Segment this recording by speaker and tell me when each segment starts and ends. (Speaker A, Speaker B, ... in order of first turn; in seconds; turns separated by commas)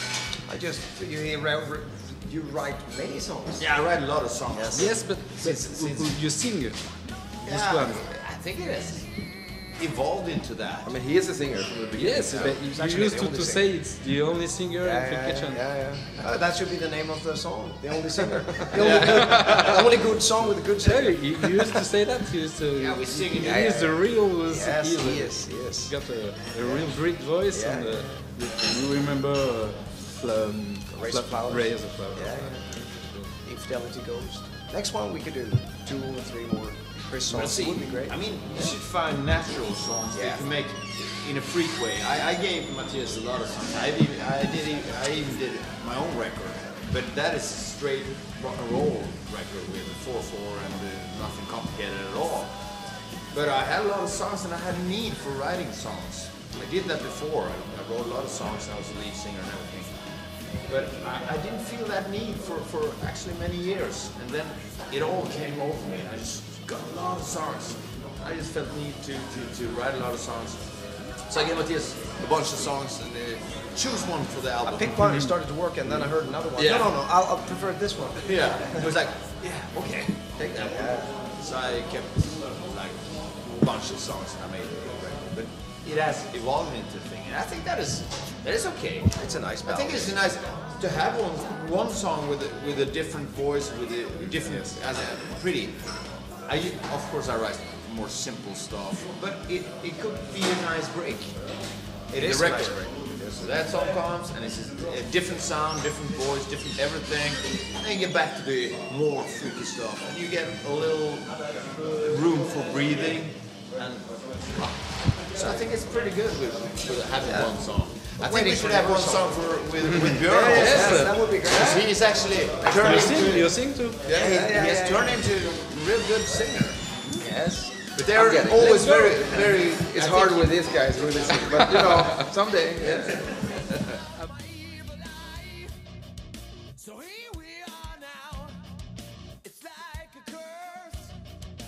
Speaker A: 0.5-6.2, Speaker B: 3.6-5.2, Speaker C: 4.8-8.0, Speaker B: 7.4-10.9, Speaker A: 10.8-14.1, Speaker D: 11.1-12.6, Speaker C: 11.9-15.6, Speaker B: 12.2-12.6, Speaker A: 14.8-21.6, Speaker B: 18.8-19.9, Speaker C: 18.8-19.9, Speaker C: 20.5-33.3, Speaker B: 22.8-24.0, Speaker A: 23.4-28.4, Speaker A: 30.9-38.8, Speaker B: 37.3-75.0, Speaker A: 40.1-40.5, Speaker A: 74.6-78.9, Speaker C: 74.9-75.5, Speaker B: 76.5-77.0, Speaker B: 78.2-127.1, Speaker A: 79.4-81.1, Speaker A: 89.2-90.2, Speaker C: 94.3-94.8, Speaker A: 102.2-103.5, Speaker A: 117.2-123.3, Speaker C: 119.9-121.2, Speaker C: 122.7-124.0, Speaker A: 124.0-125.2, Speaker A: 127.1-127.9, Speaker B: 127.9-132.0, Speaker D: 128.1-133.8, Speaker B: 132.8-133.6, Speaker A: 136.9-138.3, Speaker A: 139.4-141.0